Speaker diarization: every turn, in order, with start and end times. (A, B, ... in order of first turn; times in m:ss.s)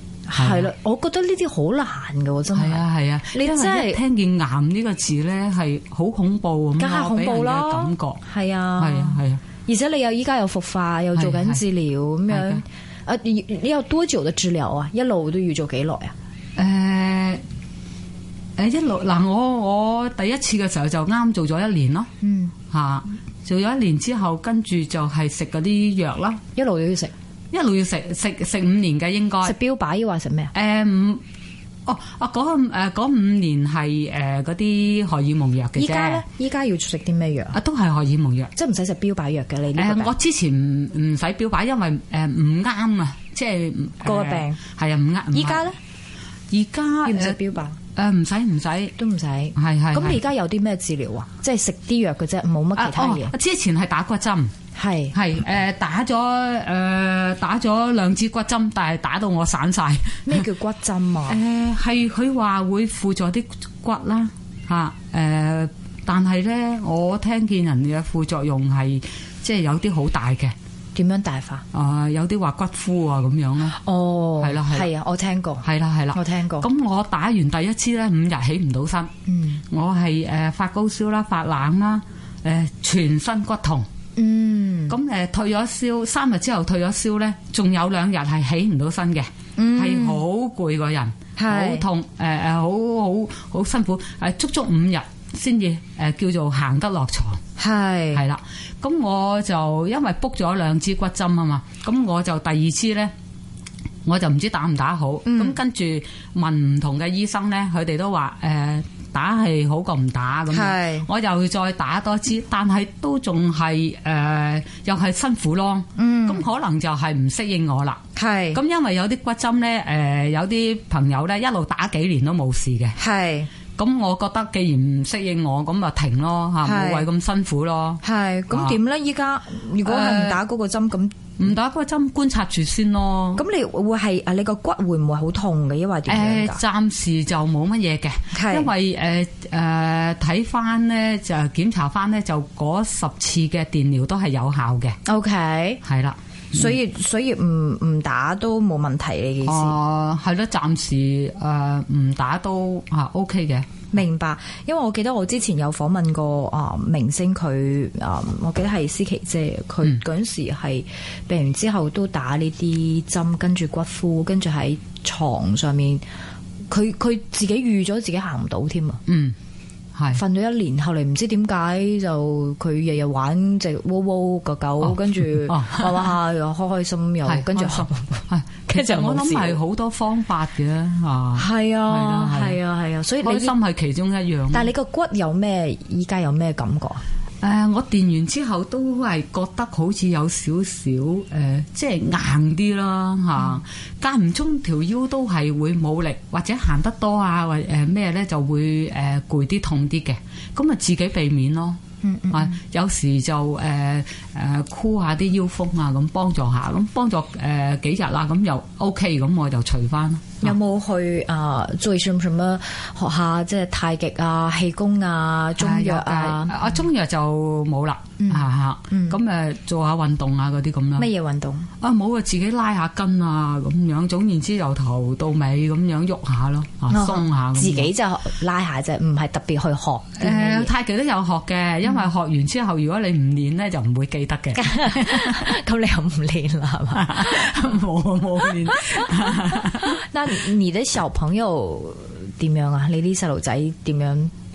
0:00.3-0:04.0 A
0:00.4-0:00.7 B
0:02.5-0:08.2 B
0:06.8-0:16.1 A
0:08.8-0:09.4 B
0:11.2-0:11.6 B
0:12.3-0:12.6 B
0:16.6-0:17.4 B
0:18.6-0:22.1 B
0:22.2-0:22.5 A
0:22.7-0:26.4 B
0:26.6-0:27.1 A
0:27.5-0:29.5 B
0:29.4-0:30.5 A
0:30.5-0:31.2 B
0:31.8-0:36.2 B
0:35.8-0:37.6 A
0:37.5-0:38.5 B
0:38.5-0:40.1 A
0:39.8-0:45.7 B
0:44.0-0:44.6 A
0:45.3-0:45.8 A
0:46.5-0:47.4 B
0:47.0-0:47.8 A
0:47.9-0:48.9 B
0:49.0-0:53.3 A
0:49.6-0:50.2 B
0:52.8-0:54.5 B
0:54.8-0:55.1 A
0:55.1-1:00.4 B
1:00.2-1:01.4 A
1:01.3-1:10.5 B
1:10.9-1:11.6 A
1:11.7-1:13.8 B
1:13.7-1:16.7 A
1:14.4-1:14.9 B
1:15.6-1:19.1 B
1:19.3-1:19.6 A
1:19.7-1:23.9 B
1:24.2-1:25.0 A
1:24.9-1:37.4 B
1:29.6-1:30.2 A
1:31.4-1:31.8 A
1:37.6-1:38.2 A
1:38.1-1:43.1 B
1:44.0-1:58.0 B
1:45.2-1:45.6 A
1:50.5-1:51.1 A
1:56.0-1:56.4 A
1:58.2-1:58.6 A
1:58.5-2:03.0 B
2:03.0-2:03.5 A
2:03.8-2:08.8 B
2:06.6-2:07.1 A
2:08.0-2:11.2 A
2:09.8-2:10.4 B
2:11.4-2:13.4 B
2:13.4-2:16.6 A
2:16.1-2:25.0 B
2:18.3-2:18.7 A
2:25.1-2:25.8 A
2:25.8-2:26.7 B
2:26.5-2:29.7 A
2:29.4-2:33.9 B
2:33.9-2:46.0 A
2:46.7-2:49.0 A
2:49.1-2:49.4 B
2:50.0-2:50.2 B
2:50.1-2:59.6 A
2:54.8-2:56.1 B
2:57.3-3:02.6 B
3:01.4-3:03.5 A
3:03.2-3:04.7 B
3:04.5-3:07.0 A
3:07.4-3:21.8 B
3:22.0-3:22.6 A
3:22.3-3:30.6 B
3:30.4-3:36.8 A
3:35.6-3:41.1 B
3:38.2-3:39.2 A
3:41.0-3:41.7 A
3:41.8-3:47.9 B
3:46.9-3:50.7 A
3:50.2-3:55.5 B
3:54.6-3:57.7 A
3:56.9-4:00.0 B
3:58.6-4:04.3 A